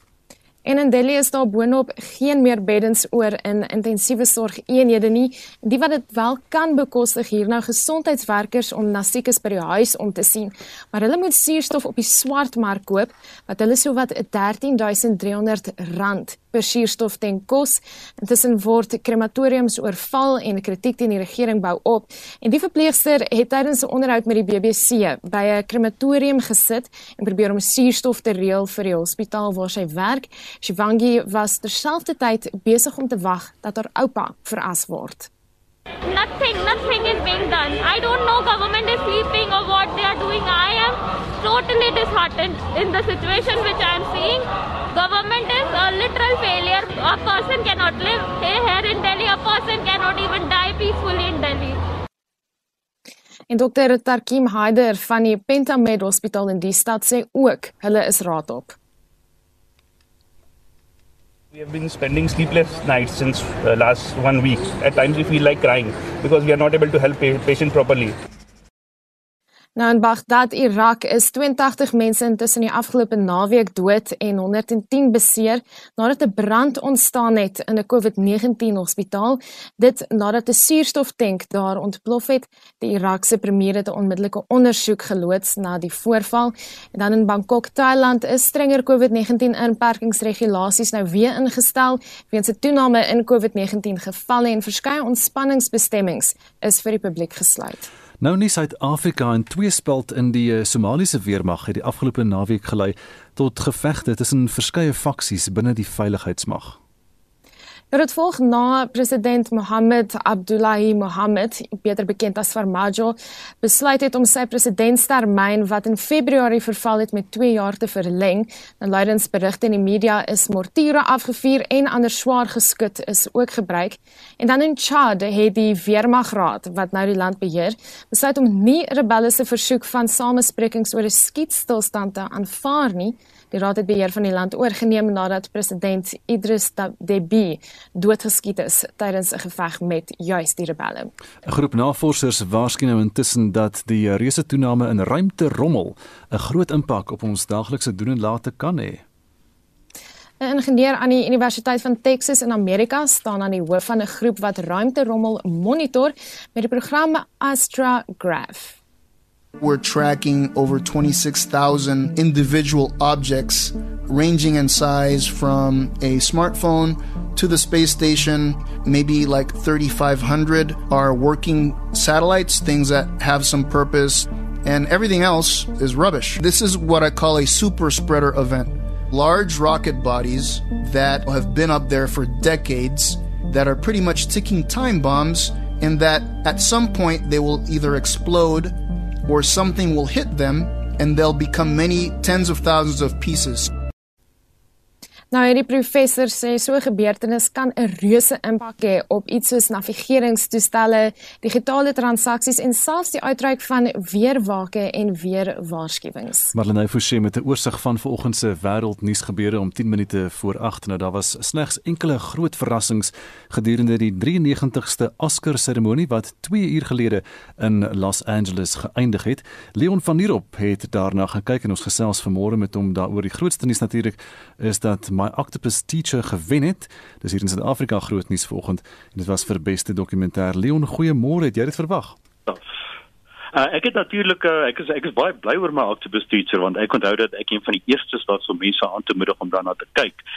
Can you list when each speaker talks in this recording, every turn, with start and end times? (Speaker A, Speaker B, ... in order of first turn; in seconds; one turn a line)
Speaker A: 0.6-35.3
Speaker B: 36.1-51.8
Speaker A: 53.5-58.7
Speaker C: 61.5-68.2
Speaker A: 69.8-97.8
Speaker D: 98.2-106.8
Speaker A: 107.9-141.1
Speaker D: 141.4-149.0
Speaker A: 150.4-158.8
Speaker E: 159.6-193.7
Speaker A: 195.3-206.5
Speaker D: 206.5-232.2
Speaker F: 233.5-240.2